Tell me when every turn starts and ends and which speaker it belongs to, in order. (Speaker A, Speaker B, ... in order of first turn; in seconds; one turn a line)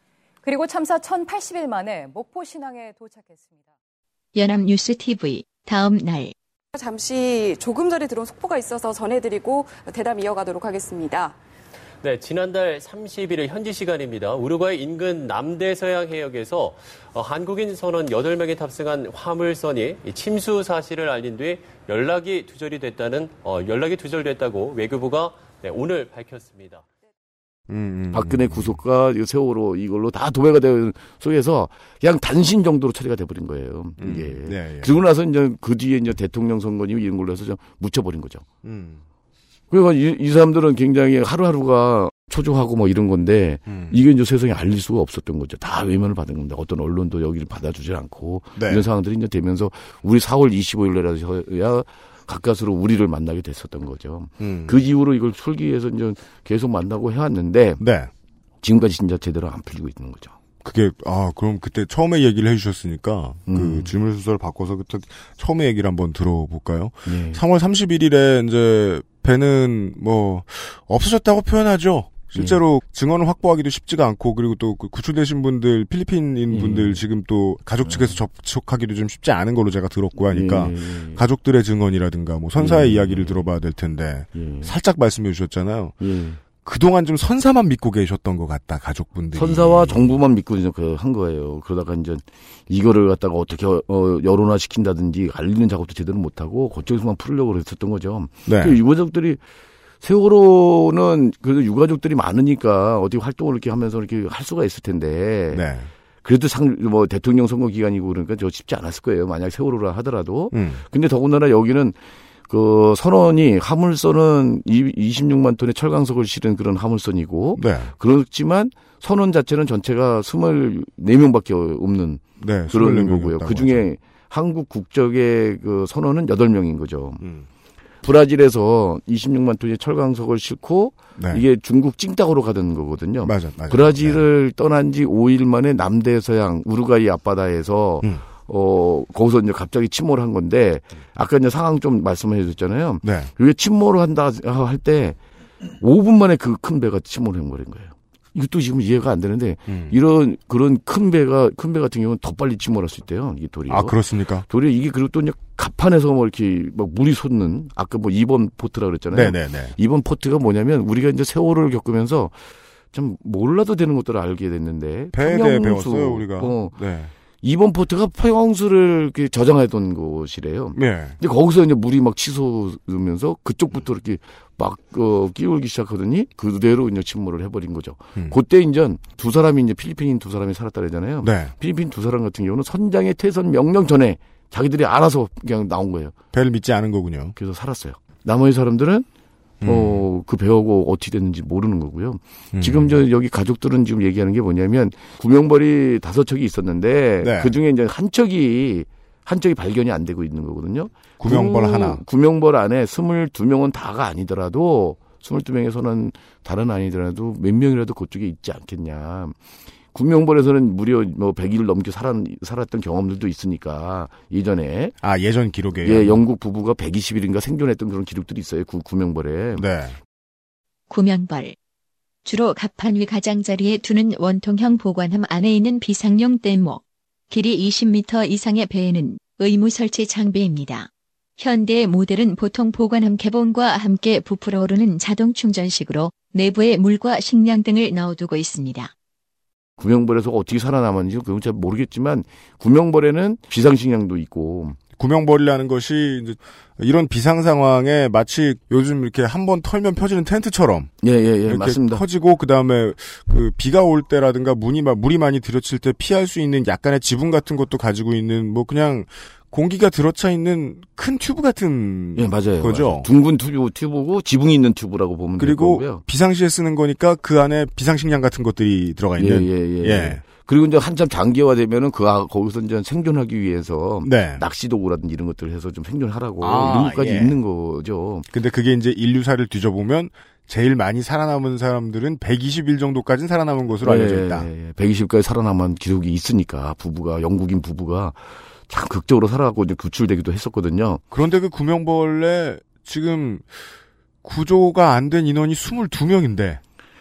Speaker A: 0.4-3.7
Speaker B: 4.3-6.3
Speaker C: 6.7-11.4
Speaker D: 12.0-26.9
Speaker E: 27.7-28.8
Speaker F: 28.1-38.5
Speaker E: 34.0-34.9
Speaker E: 38.6-39.0
Speaker F: 39.7-57.8
Speaker E: 43.7-44.0
Speaker E: 48.6-48.8
Speaker E: 54.4-54.8
Speaker E: 57.8-58.1
Speaker F: 58.6-60.4
Speaker E: 60.6-86.0
Speaker F: 63.5-63.9
Speaker F: 67.1-67.4
Speaker F: 72.3-72.6
Speaker F: 76.5-77.0
Speaker F: 77.8-78.2
Speaker F: 80.2-81.2
Speaker F: 82.6-83.4
Speaker F: 84.3-84.7
Speaker F: 86.0-86.4
Speaker E: 86.6-90.1
Speaker F: 89.3-99.4
Speaker E: 98.5-98.8
Speaker F: 100.0-105.7
Speaker E: 105.5-105.9
Speaker F: 106.2-112.0
Speaker E: 110.5-110.8
Speaker F: 112.5-127.3
Speaker E: 117.6-117.9
Speaker E: 122.4-123.8
Speaker E: 127.2-127.5
Speaker F: 128.0-145.2
Speaker E: 131.2-131.4
Speaker E: 133.2-134.2
Speaker E: 143.0-143.3
Speaker F: 145.8-162.3
Speaker E: 149.7-149.9
Speaker E: 153.7-154.4
Speaker E: 159.1-159.7
Speaker F: 162.9-166.8
Speaker E: 165.1-167.1
Speaker F: 167.4-186.1
Speaker E: 170.7-171.2
Speaker E: 181.2-181.5
Speaker E: 186.3-187.3
Speaker F: 187.4-189.1
Speaker E: 189.6-190.0
Speaker F: 189.6-209.4
Speaker E: 192.5-193.0
Speaker E: 197.2-197.5
Speaker E: 201.2-202.0
Speaker F: 209.9-214.9
Speaker E: 215.0-216.2
Speaker F: 215.8-219.7
Speaker E: 219.6-220.0
Speaker B: 220.9-221.6
Speaker B: 222.2-238.9
Speaker F: 239.8-244.8
Speaker E: 245.0-250.9
Speaker F: 251.0-252.1
Speaker E: 251.5-263.1
Speaker F: 262.1-266.0
Speaker E: 265.4-270.2
Speaker F: 269.2-278.3
Speaker E: 274.0-274.4
Speaker E: 276.4-277.4
Speaker E: 278.3-284.5
Speaker F: 283.8-291.0
Speaker E: 291.1-293.6
Speaker E: 294.2-296.6